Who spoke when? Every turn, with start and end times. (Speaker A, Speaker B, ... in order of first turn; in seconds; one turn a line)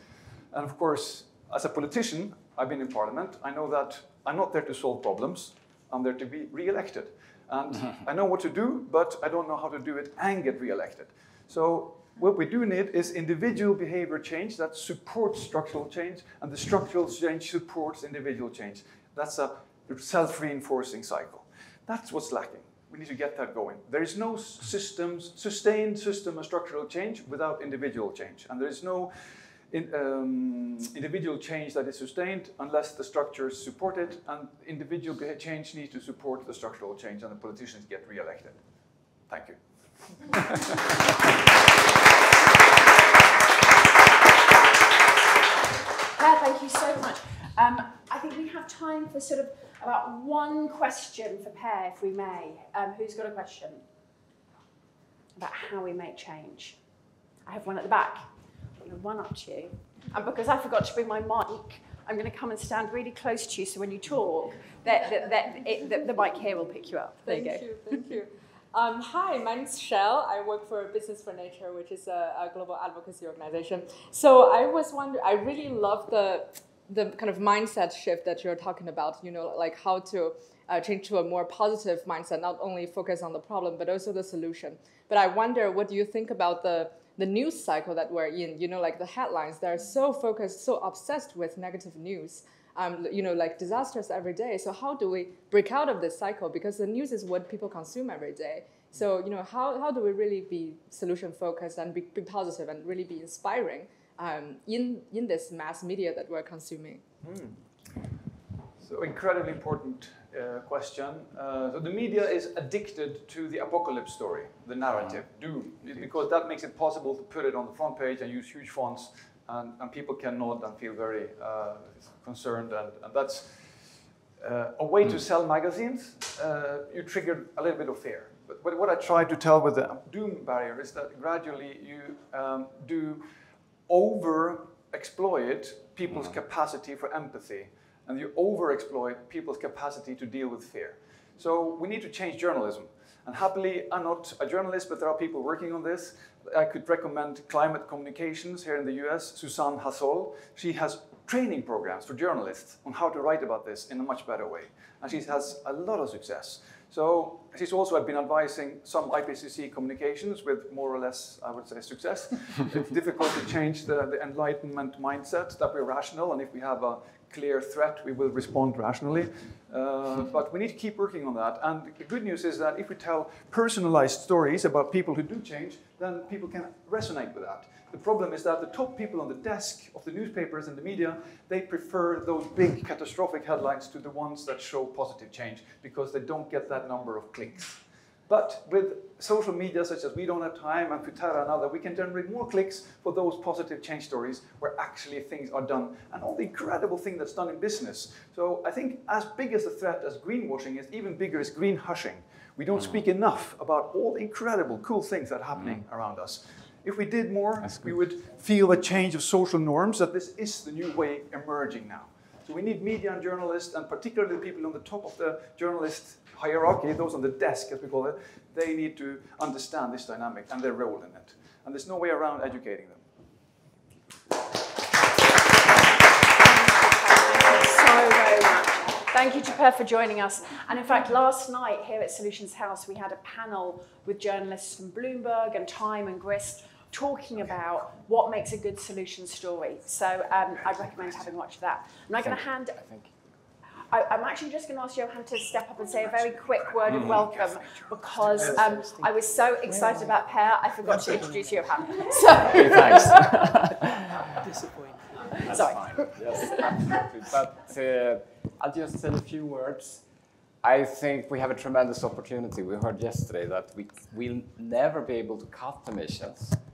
Speaker A: 0.5-38.6
Speaker A: 39.3-40.5
Speaker B: 46.1-53.8
Speaker B: 55.4-56.8
Speaker B: 57.5-58.3
Speaker B: 58.8-67.9
Speaker C: 67.2-107.0
Speaker A: 107.2-108.0
Speaker A: 108.8-133.3
Speaker A: 133.9-223.0
Speaker B: 226.3-242.8
Speaker A: 240.7-241.2
Speaker D: 242.3-243.1
Speaker B: 243.9-253.5
Speaker A: 246.1-248.7
Speaker D: 252.5-253.7
Speaker B: 255.2-256.6
Speaker D: 255.6-260.0
Speaker D: 260.6-266.6